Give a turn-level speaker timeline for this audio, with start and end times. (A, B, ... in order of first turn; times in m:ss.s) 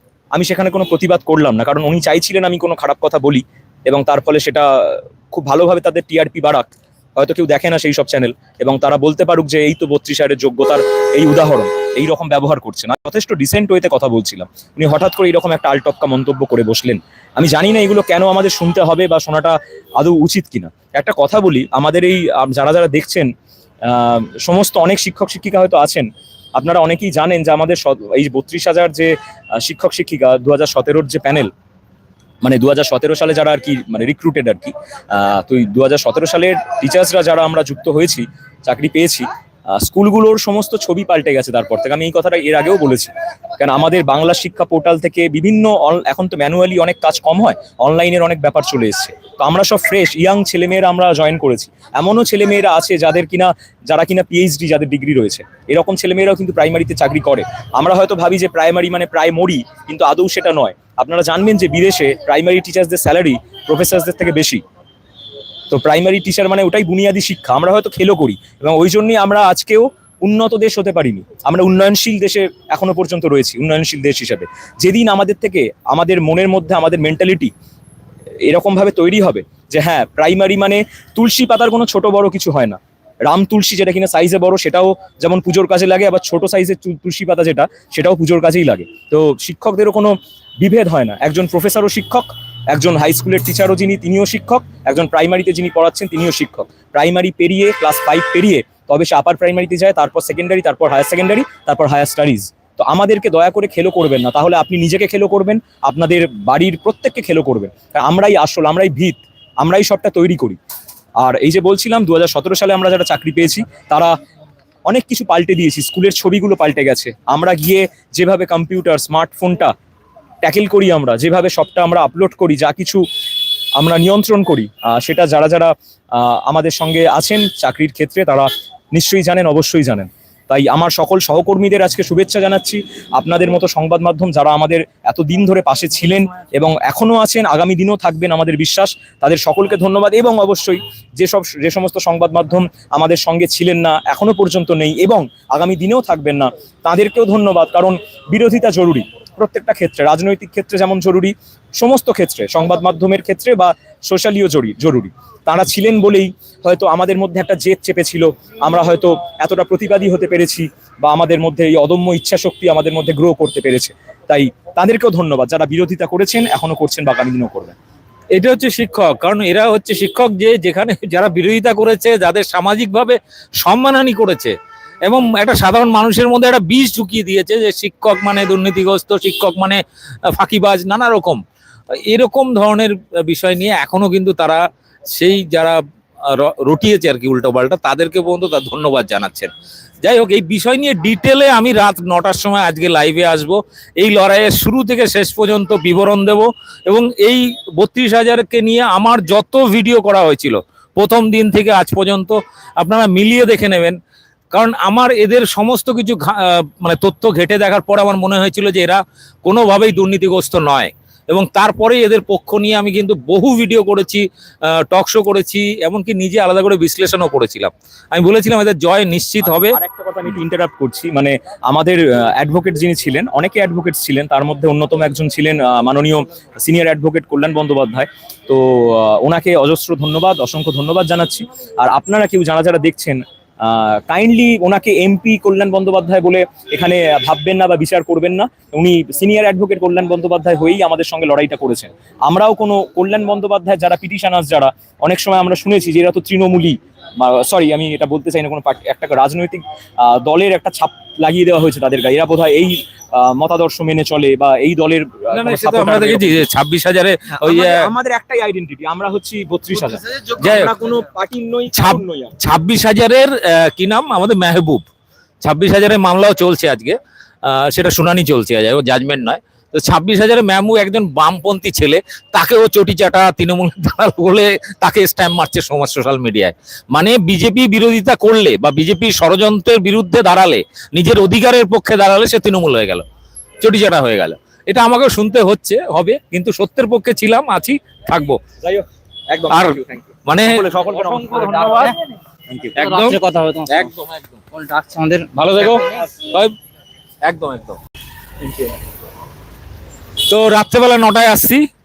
0:00.4-0:23.3 A
0:23.9-0:31.5 A
0:32.4-1:04.6 A
1:05.7-1:17.5 A
1:18.4-1:50.6 A
1:51.2-1:54.1 A
1:54.9-1:59.7 A
2:00.4-2:03.0 A
2:03.8-2:47.8 A
2:48.3-3:01.4 B
3:01.9-3:09.5 B
3:10.0-3:24.0 B
3:24.5-3:39.8 B
3:39.4-4:16.5 A
4:15.3-4:17.8 B
4:17.4-4:22.4 A
4:20.4-4:20.7 B
4:21.7-4:24.8 B
4:25.4-4:43.0 B
4:43.6-4:48.4 B
4:48.6-4:51.9 A
4:49.5-4:51.9 B
4:51.4-4:51.9 C
4:52.5-4:52.7 A
4:52.8-4:54.4 B
4:52.8-4:53.7 C
4:54.5-4:55.8 C
4:55.3-4:56.5 B
4:57.2-4:57.8 B
5:00.3-5:01.6 B